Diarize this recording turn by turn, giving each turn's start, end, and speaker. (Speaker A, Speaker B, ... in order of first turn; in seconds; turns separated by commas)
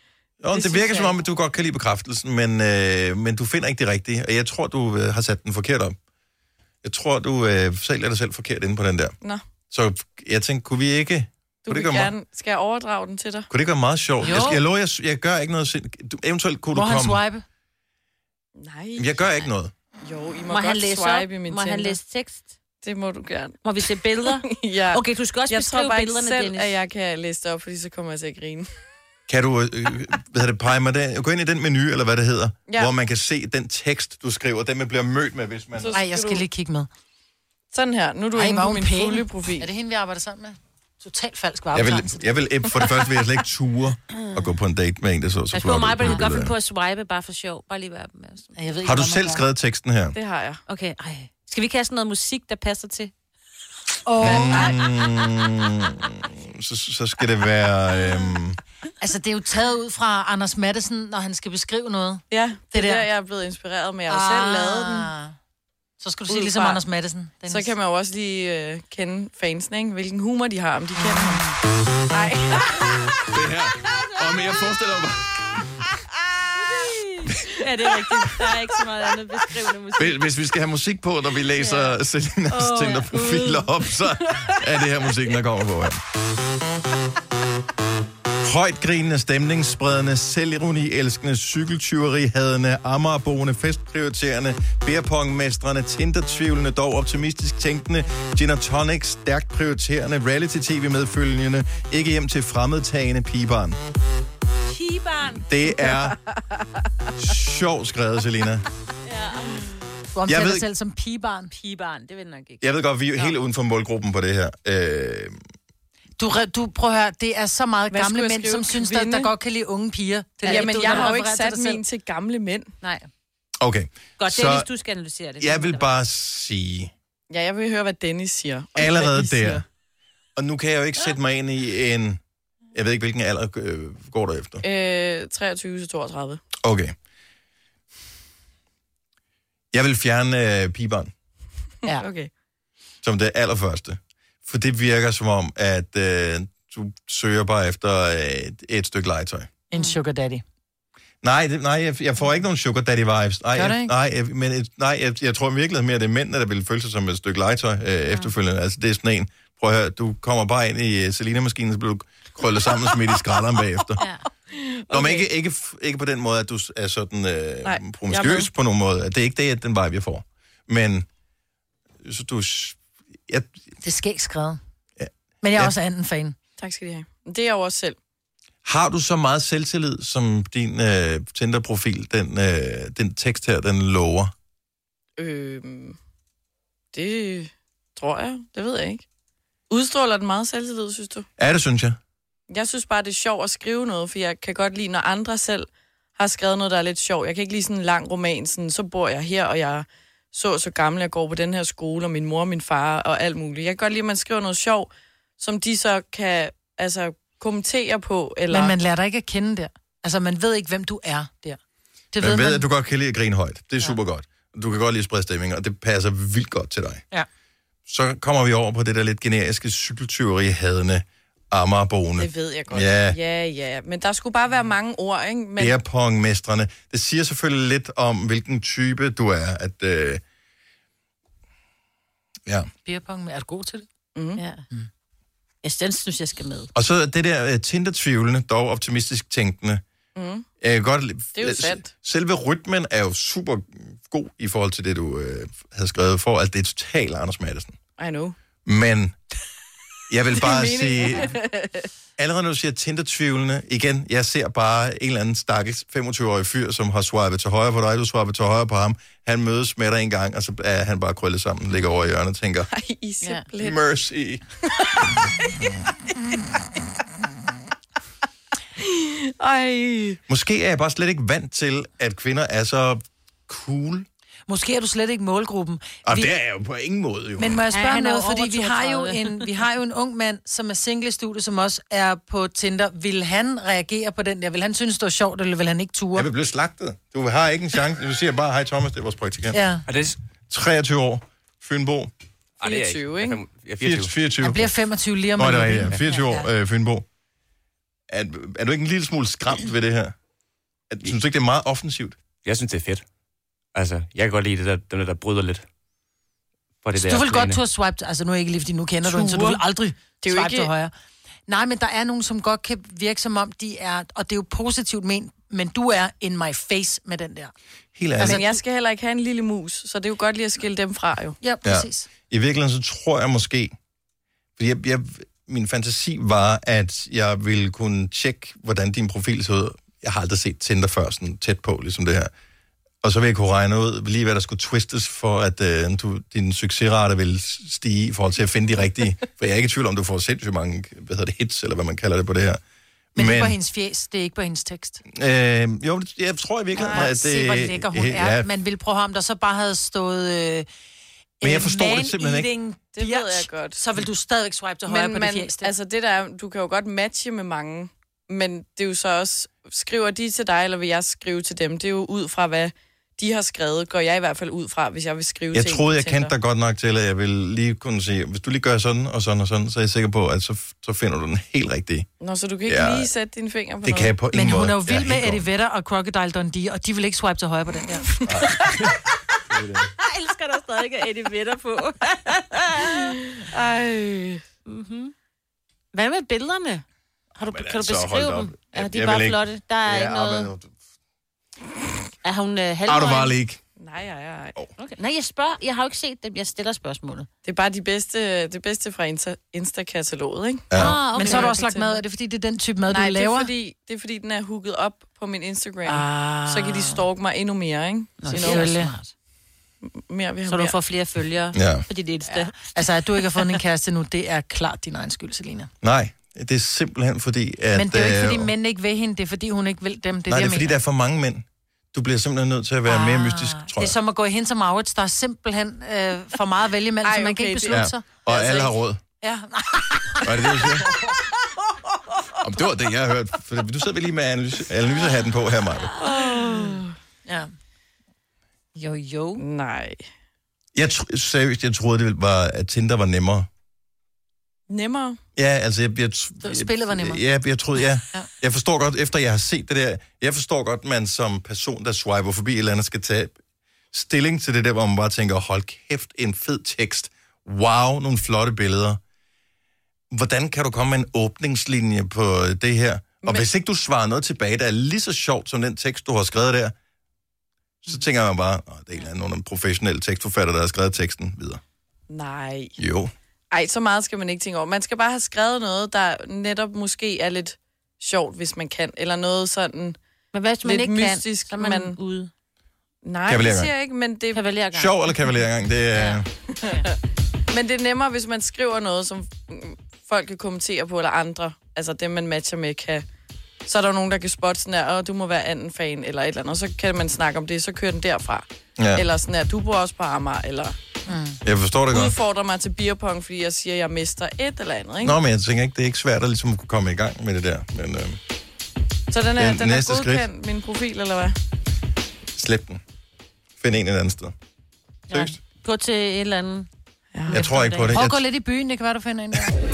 Speaker A: 0.4-6.0, Speaker B: 0.5-1.2, Speaker A: 6.8-9.1, Speaker A: 9.7-12.1, Speaker B: 11.7-13.5, Speaker A: 13.5-17.2, Speaker C: 14.2-14.6, Speaker C: 16.7-17.4, Speaker B: 18.6-19.3, Speaker A: 19.0-19.7, Speaker B: 20.0-22.0, Speaker D: 20.5-22.5, Speaker B: 22.8-28.7, Speaker D: 23.6-26.8, Speaker A: 29.3-36.0, Speaker B: 35.8-36.4, Speaker C: 35.9-36.9, Speaker B: 37.7-39.7, Speaker C: 38.3-42.2, Speaker A: 41.7-46.5, Speaker D: 45.5-48.5, Speaker C: 48.5-49.4, Speaker A: 48.8-50.1, Speaker B: 50.1-50.6, Speaker D: 50.7-53.1, Speaker C: 54.0-54.8, Speaker A: 54.2-58.6, Speaker B: 54.2-54.8, Speaker C: 59.0-63.1, Speaker B: 62.3-65.1, Speaker C: 64.1-65.3, Speaker C: 66.0-67.7, Speaker B: 66.3-66.8, Speaker B: 67.5-71.5, Speaker B: 72.1-73.1, Speaker A: 73.2-75.3, Speaker D: 76.6-80.2, Speaker A: 80.0-86.0, Speaker D: 81.6-81.9, Speaker D: 82.5-83.7, Speaker A: 88.4-103.8, Speaker D: 104.7-105.5, Speaker A: 105.3-106.2, Speaker A: 107.2-108.7, Speaker D: 109.0-109.7, Speaker C: 110.1-111.5, Speaker A: 110.3-110.7, Speaker D: 111.6-112.6, Speaker A: 112.6-115.4, Speaker C: 116.2-121.8, Speaker B: 117.9-119.3, Speaker D: 120.4-121.3, Speaker B: 120.4-122.7, Speaker D: 122.8-123.1, Speaker A: 123.6-124.7, Speaker D: 124.2-125.9, Speaker A: 125.4-126.9, Speaker B: 127.3-129.6, Speaker A: 128.8-129.6, Speaker A: 130.3-132.2, Speaker A: 132.7-134.6, Speaker B: 134.6-136.4, Speaker A: 136.6-136.9, Speaker A: 139.7-141.1, Speaker B: 142.0-142.3, Speaker A: 143.0-149.5, Speaker C: 149.7-150.4, Speaker A: 151.2-164.0, Speaker C: 153.5-153.9, Speaker B: 164.5-165.3, Speaker A: 164.9-171.1, Speaker B: 167.6-168.5, Speaker A: 172.0-173.6, Speaker C: 173.8-174.6, Speaker A: 175.0-175.7, Speaker C: 175.4-176.3, Speaker B: 176.6-178.0, Speaker A: 178.6-184.3, Speaker B: 185.2-186.0, Speaker B: 186.9-189.0, Speaker B: 189.7-191.3, Speaker A: 191.4-192.0, Speaker B: 192.5-208.7, Speaker C: 208.5-211.6, Speaker C: 212.1-212.7, Speaker A: 212.2-217.0, Speaker A: 217.9-223.2, Speaker B: 222.2-225.7, Speaker A: 225.6-230.2, Speaker C: 232.8-233.9, Speaker B: 234.1-234.4, Speaker D: 234.4-234.6, Speaker D: 235.6-236.7, Speaker A: 236.7-239.8, Speaker B: 240.2-240.5, Speaker A: 240.6-247.8, Speaker B: 241.3-241.9, Speaker B: 248.0-248.4, Speaker A: 248.6-249.2, Speaker A: 250.1-251.4, Speaker B: 250.3-251.9, Speaker A: 252.2-262.7, Speaker B: 262.7-263.8, Speaker A: 263.6-264.4, Speaker B: 264.8-265.1, Speaker B: 268.8-270.2, Speaker A: 270.3-274.1, Speaker C: 274.5-276.3, Speaker A: 276.0-277.6, Speaker C: 277.4-286.3, Speaker D: 277.7-279.4, Speaker A: 286.1-289.6, Speaker C: 289.5-289.8, Speaker E: 289.9-290.2, Speaker A: 290.5-292.1, Speaker E: 292.6-294.1, Speaker B: 292.6-293.4, Speaker A: 293.8-294.7, Speaker C: 294.4-296.5, Speaker A: 295.4-297.0, Speaker A: 298.1-300.1, Speaker A: 300.9-302.2, Speaker E: 302.4-303.0, Speaker E: 303.7-305.6, Speaker E: 306.8-307.6, Speaker C: 307.0-310.9, Speaker B: 309.0-309.6, Speaker B: 310.2-310.7, Speaker C: 311.5-317.5, Speaker A: 317.9-318.4, Speaker C: 318.2-318.4, Speaker B: 318.2-321.4, Speaker C: 321.4-322.1, Speaker A: 321.6-323.7, Speaker A: 324.6-332.3, Speaker A: 333.0-342.6, Speaker A: 343.1-343.6, Speaker C: 343.1-345.0, Speaker A: 345.1-348.5, Speaker C: 346.8-350.7, Speaker B: 346.8-347.1, Speaker A: 351.4-352.5, Speaker C: 351.4-355.7, Speaker B: 352.9-353.8, Speaker B: 354.9-366.3, Speaker A: 365.5-372.1, Speaker B: 372.2-374.1, Speaker A: 372.7-373.1, Speaker A: 373.8-375.4, Speaker C: 374.3-378.1, Speaker A: 378.2-378.7, Speaker A: 379.5-379.9, Speaker D: 380.0-383.1, Speaker B: 383.4-384.4, Speaker D: 384.7-385.1, Speaker D: 385.9-386.8, Speaker D: 387.4-390.5, Speaker A: 387.4-390.7, Speaker D: 392.2-393.4, Speaker A: 392.9-393.6, Speaker B: 393.8-394.5, Speaker D: 394.8-397.3, Speaker B: 397.4-400.7, Speaker A: 400.7-401.0, Speaker D: 400.7-402.0, Speaker C: 400.8-403.5, Speaker B: 401.2-401.5, Speaker B: 402.9-408.7, Speaker C: 405.9-407.0, Speaker D: 408.2-409.1, Speaker C: 408.3-408.9, Speaker B: 409.8-410.8, Speaker D: 410.5-413.6, Speaker A: 411.5-411.9, Speaker C: 412.3-415.7, Speaker A: 415.8-418.5, Speaker C: 417.7-420.8, Speaker A: 420.3-423.9, Speaker C: 422.9-428.0, Speaker B: 427.0-428.6, Speaker A: 427.7-429.0, Speaker C: 429.2-431.3, Speaker A: 430.2-431.0, Speaker A: 432.4-435.9, Speaker B: 436.0-436.9, Speaker C: 436.1-436.7, Speaker C: 437.2-437.5, Speaker C: 438.7-439.4, Speaker B: 439.4-440.0, Speaker A: 440.7-443.5, Speaker B: 444.7-445.2, Speaker A: 445.4-453.4, Speaker C: 446.4-447.2, Speaker A: 453.9-459.0, Speaker A: 460.1-466.7, Speaker B: 463.2-463.5, Speaker A: 467.8-471.6, Speaker B: 472.1-472.7, Speaker A: 472.8-473.1, Speaker B: 473.5-480.0, Speaker D: 480.3-482.3, Speaker B: 480.6-482.0, Speaker B: 483.0-484.4, Speaker A: 483.3-483.7, Speaker D: 484.3-485.2, Speaker A: 484.7-486.3, Speaker D: 485.9-486.9, Speaker B: 487.5-493.0, Speaker B: 493.6-500.8, Speaker A: 498.8-499.0, Speaker C: 501.1-501.4, Speaker A: 501.4-502.2, Speaker B: 501.9-505.2, Speaker A: 505.0-508.2, Speaker B: 509.1-511.4, Speaker A: 509.4-510.3, Speaker A: 512.3-512.8, Speaker A: 513.6-514.3, Speaker A: 515.1-515.4, Speaker D: 515.1-516.7, Speaker D: 517.3-518.0, Speaker A: 517.3-518.2, Speaker C: 517.9-519.5